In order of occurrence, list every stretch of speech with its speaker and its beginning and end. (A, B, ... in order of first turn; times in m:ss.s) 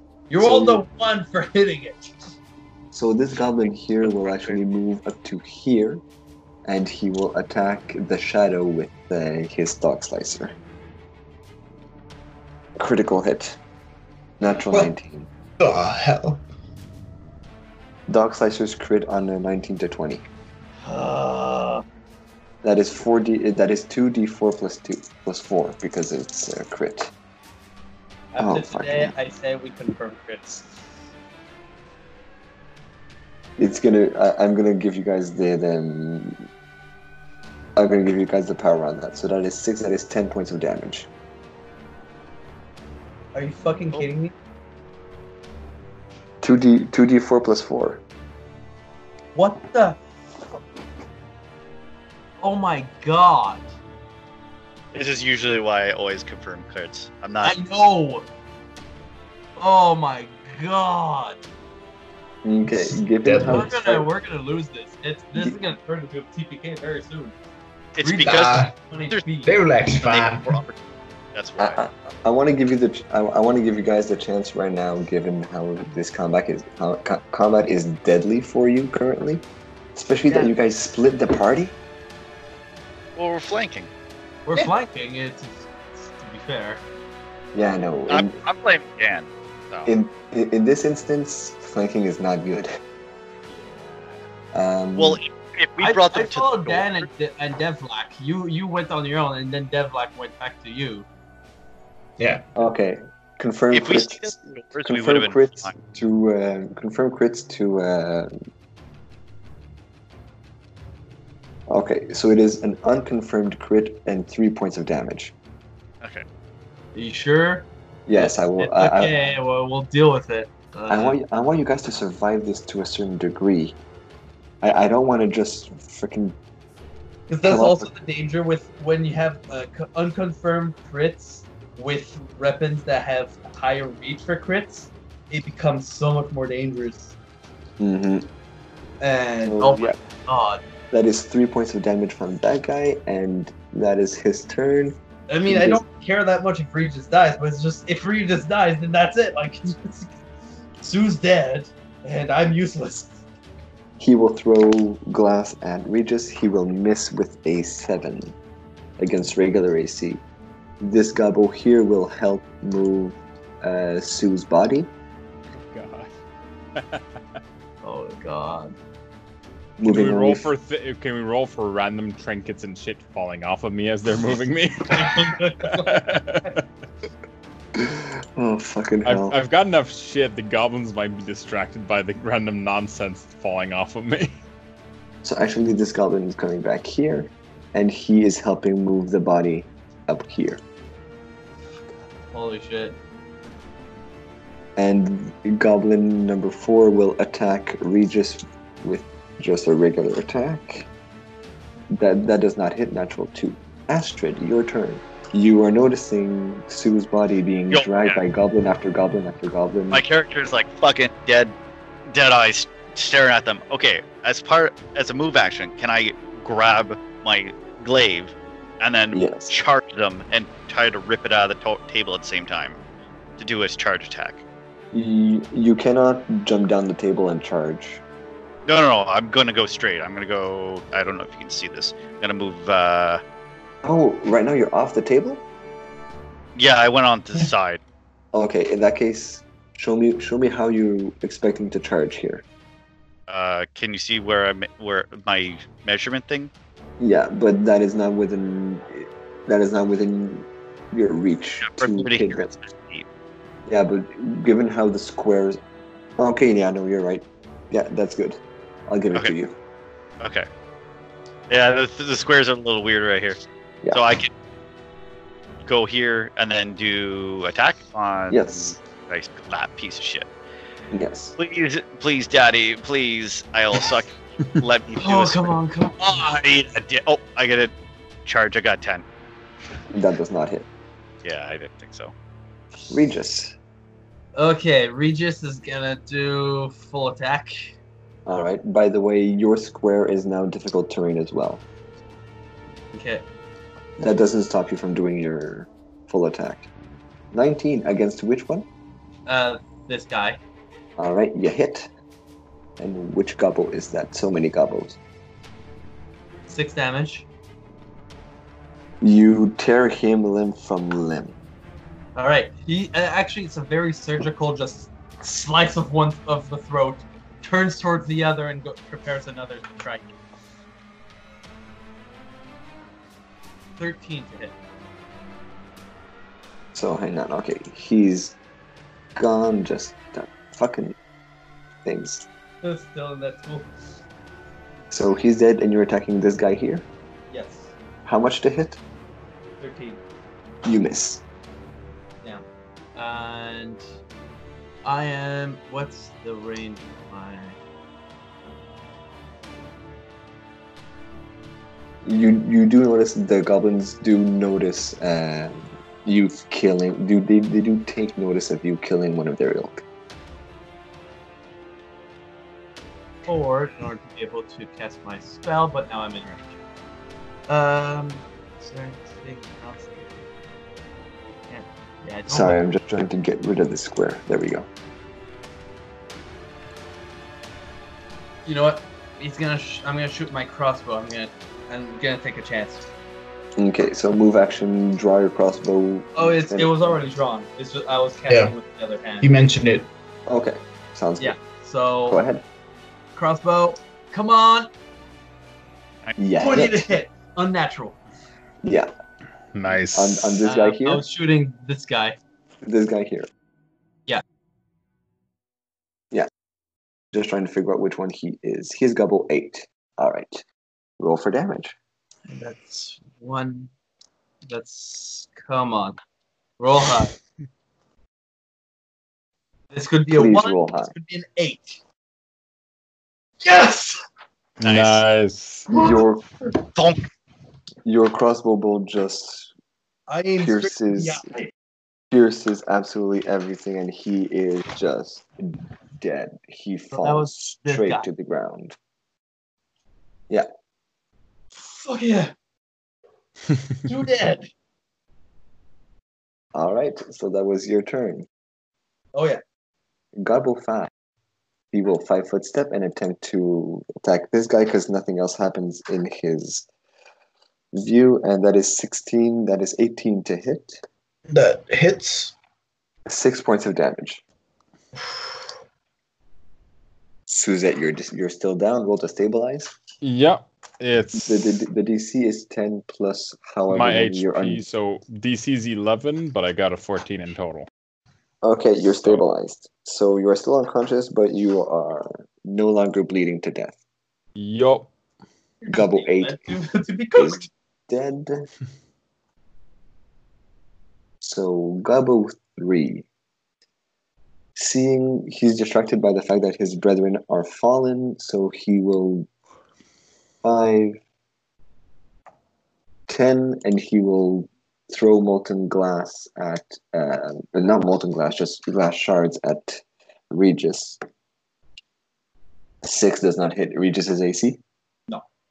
0:00.3-0:02.2 A
0:00.4-0:00.8 B
0:02.9-0:06.0 B
0:04.0-0:04.6 C
0:06.6-0:10.5 B
0:12.8-0:13.6 B
0:14.4-0:15.3 B
0:15.6-0:16.4 D
0:18.1-0:20.2 B
0:20.8-0:21.8 A
0:22.6-0:27.1 B
0:28.3-0:30.8 A
0:28.4-0:29.1 B
0:33.6-0:36.4 B
0:37.8-0:41.1 B
0:43.3-0:44.3 A
0:46.4-0:48.0 B
0:49.3-0:50.0 A
0:52.4-0:53.7 A
0:54.9-0:57.6 C
0:57.4-0:58.3 A
0:59.6-1:01.4 A
1:02.4-1:04.1 B
1:02.8-1:03.7 D
1:03.4-1:07.3 A
1:08.0-1:09.2 C
1:08.0-1:09.5 A
1:08.2-1:08.7 D
1:09.4-1:10.6 D
1:10.0-1:10.8 C
1:11.3-1:11.8 C
1:11.6-1:19.4 B
1:19.9-1:21.8 B
1:23.2-1:23.9 C
1:24.4-1:26.8 A
1:27.5-1:28.4 B
1:28.1-1:29.9 C
1:29.8-1:32.7 B
1:34.5-1:35.2 B
1:34.9-1:37.0 C
1:35.8-1:41.0 A
1:42.2-1:42.4 D
1:42.6-1:44.3 B
1:43.7-1:45.7 C
1:44.8-1:48.3 B
1:51.7-1:55.3 B
1:56.9-2:01.2 A
1:58.1-1:59.4 B
2:00.9-2:03.8 B
2:04.6-2:06.3 B
2:07.3-2:17.1 A
2:07.4-2:07.9 B
2:17.8-2:18.3 B
2:19.0-2:20.6 A
2:19.4-2:20.0 B
2:20.9-2:25.0 B
2:25.3-2:30.1 A
2:25.5-2:25.8 B
2:30.8-2:33.2 A
2:34.0-2:38.3 B
2:39.0-2:40.2 B
2:40.8-2:44.9 B
2:45.6-2:46.1 E
2:46.8-2:47.0 E
2:47.8-2:48.7 A
2:49.8-2:50.5 B
2:49.8-2:56.6 E
2:54.9-2:56.5 A
2:57.8-2:59.4 B
2:59.0-3:04.4 E
3:05.2-3:10.6 B
3:12.3-3:13.0 A
3:14.8-3:20.9 B
3:21.9-3:30.0 B
3:27.7-3:28.2 C
3:29.9-3:31.5 C
3:32.1-3:42.8 C
3:39.1-3:39.5 B
3:43.4-3:44.4 C
3:44.9-3:48.0 B
3:48.6-3:53.2 C
3:53.8-3:55.4 B
3:56.5-3:57.8 C
3:58.3-4:02.4 B
4:03.3-4:06.5 C
4:07.0-4:12.5 B
4:11.6-4:13.0 C
4:13.6-4:15.6 B
4:16.2-4:19.6 B
4:20.2-4:20.5 C
4:21.5-4:23.4 C
4:23.9-4:24.3 C
4:25.6-4:30.3 C
4:28.3-4:28.8 B
4:30.9-4:31.3 B
4:31.4-4:37.7 C
4:35.0-4:36.2 A
4:38.2-4:39.0 C
4:39.9-4:40.7 B
4:41.2-4:42.1 C
4:42.9-4:43.6 B
4:44.3-4:47.5 A
4:48.2-4:51.6 B
4:52.9-4:53.2 A
4:54.0-4:56.7 B
4:57.3-4:58.6 B
4:59.2-5:00.4 A
5:01.0-5:01.9 B
5:02.8-5:05.0 B
5:06.5-5:07.2 A
5:09.0-5:11.3 B
5:12.2-5:20.1 A
5:23.8-5:24.5 A
5:26.7-5:28.4 B
5:29.2-5:31.0 B
5:31.8-5:32.2 B
5:32.6-5:33.7 A
5:34.9-5:36.8 B
5:37.3-5:37.7 A
5:38.0-5:38.8 B
5:39.6-5:40.0 A
5:40.6-5:41.2 B
5:42.9-5:43.8 A
5:44.8-5:47.6 A
5:52.0-5:59.8 B
6:03.2-6:06.5 A
6:07.5-6:10.1 A
6:11.5-6:12.6 A
6:12.3-6:14.7 B
6:18.4-6:22.8 A
6:23.6-6:27.0 B
6:26.2-6:29.3 A
6:28.3-6:28.5 D
6:29.2-6:29.9 D
6:30.3-6:31.4 B
6:31.2-6:32.2 A
6:32.1-6:32.4 B
6:33.1-6:34.7 A
6:36.2-6:36.9 B
6:36.4-6:38.0 A
6:38.6-6:38.9 B
6:39.5-6:40.4 E
6:39.9-6:41.0 B
6:40.4-6:42.2 A
6:42.6-6:43.3 B
6:47.1-6:50.4 B
6:51.0-6:51.7 B
6:52.3-6:53.7 A
6:54.5-6:56.0 A
6:56.6-6:57.2 A
6:59.7-7:01.8 A
7:00.1-7:00.9 B
7:03.4-7:04.0 A
7:04.6-7:05.7 E
7:04.6-7:05.0 C
7:05.7-7:06.2 B
7:05.7-7:06.0 A
7:06.7-7:07.1 C
7:07.8-7:09.5 B
7:10.1-7:11.5 A
7:10.4-7:11.2 B
7:12.1-7:18.8 B
7:16.9-7:18.0 A
7:21.6-7:22.3 A
7:23.8-7:24.5 A
7:26.5-7:28.3 B
7:29.1-7:29.4 A
7:30.2-7:30.9 B
7:31.7-7:36.6 B
7:37.7-7:40.8 B
7:41.3-7:42.3 D
7:43.0-7:44.2 B
7:47.3-7:49.7 B
7:50.0-7:51.6 E
7:51.2-7:54.6 B
7:53.7-7:57.7 E
7:58.4-8:03.8 B
8:04.4-8:04.9 E
8:05.6-8:07.5 A
8:05.7-8:06.4 B
8:07.1-8:08.4 B
8:11.2-8:13.0 B
8:14.6-8:19.3 B
8:20.4-8:21.0 B
8:23.1-8:31.0 B
8:32.8-8:34.6 B